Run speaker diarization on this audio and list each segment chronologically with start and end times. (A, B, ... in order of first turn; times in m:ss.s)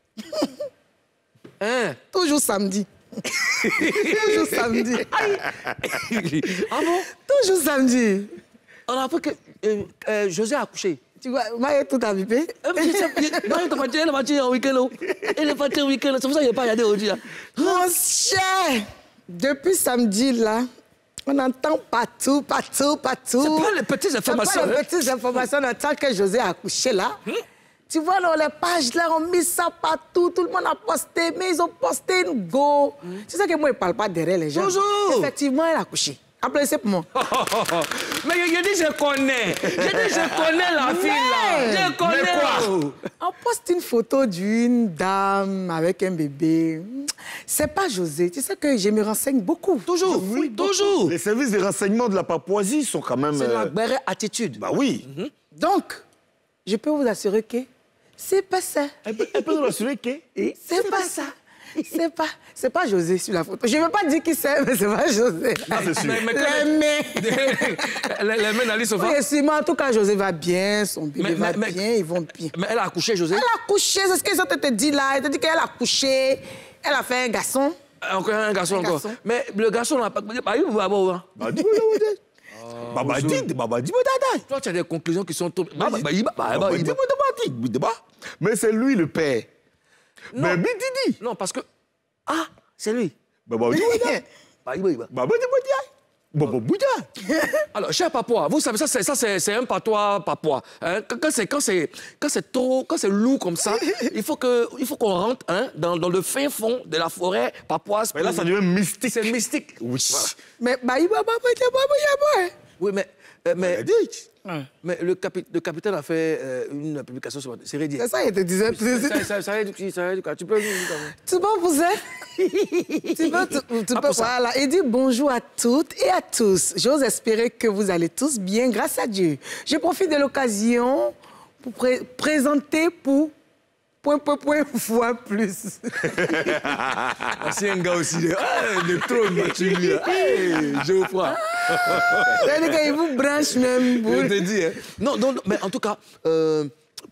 0:00.2-0:00.6 A
0:01.6-0:02.0 B
0:02.1-0:05.2 A
0:03.5-0:07.1 B
0:07.1-0:08.3 A
0:08.9-0:11.0 B
0:11.2-0:13.6 A
0:12.6-0:17.9 B
0:17.6-0:20.6 A
0:21.2-0:23.7 A
0:23.4-0:25.4 B
0:24.2-0:27.2 A
0:27.9-0:37.1 A
0:34.5-0:35.3 B
0:37.1-0:43.0 B
0:39.7-0:40.5 C
0:40.8-0:42.0 A
0:42.0-0:42.7 C
0:43.2-0:50.3 A
0:49.8-0:51.1 B
0:50.0-0:53.7 C
0:53.3-0:55.3 B
0:54.6-0:55.0 C
0:55.5-0:56.0 A
0:56.6-0:57.7 A
0:58.2-0:58.9 A
0:59.0-1:00.2 C
0:59.1-0:59.6 B
1:00.3-1:02.0 B
1:00.6-1:01.3 A
1:01.8-1:08.0 A
1:05.7-1:09.2 B
1:05.7-1:06.3 C
1:08.9-1:12.5 A
1:11.2-1:11.8 B
1:12.4-1:13.4 B
1:13.3-1:17.8 A
1:18.0-1:21.4 B
1:18.7-1:19.2 A
1:21.4-1:22.2 C
1:22.5-1:23.5 B
1:22.8-1:24.4 C
1:24.5-1:27.0 B
1:25.8-1:29.5 C
1:30.3-1:30.6 B
1:30.4-1:31.2 C
1:31.2-1:31.6 B
1:32.3-1:33.1 B
1:33.5-1:34.2 C
1:33.7-1:34.2 A
1:34.6-1:35.1 B
1:35.1-1:37.1 C
1:37.3-1:37.6 A
1:37.7-1:48.5 B
1:48.1-1:50.3 C
1:49.0-1:50.3 B
1:50.6-1:52.5 A
1:52.8-1:53.8 B
1:53.6-1:54.3 C
1:54.8-1:58.1 B
1:58.0-1:59.2 A
1:58.6-2:01.2 B
2:01.1-2:02.0 A
2:02.4-2:04.3 B
2:03.1-2:13.3 A
2:14.0-2:16.6 A
2:16.1-2:17.4 C
2:17.2-2:22.8 B
2:18.8-2:20.9 C
2:20.0-2:20.5 A
2:21.3-2:24.4 A
2:21.7-2:22.6 C
2:23.5-2:26.7 B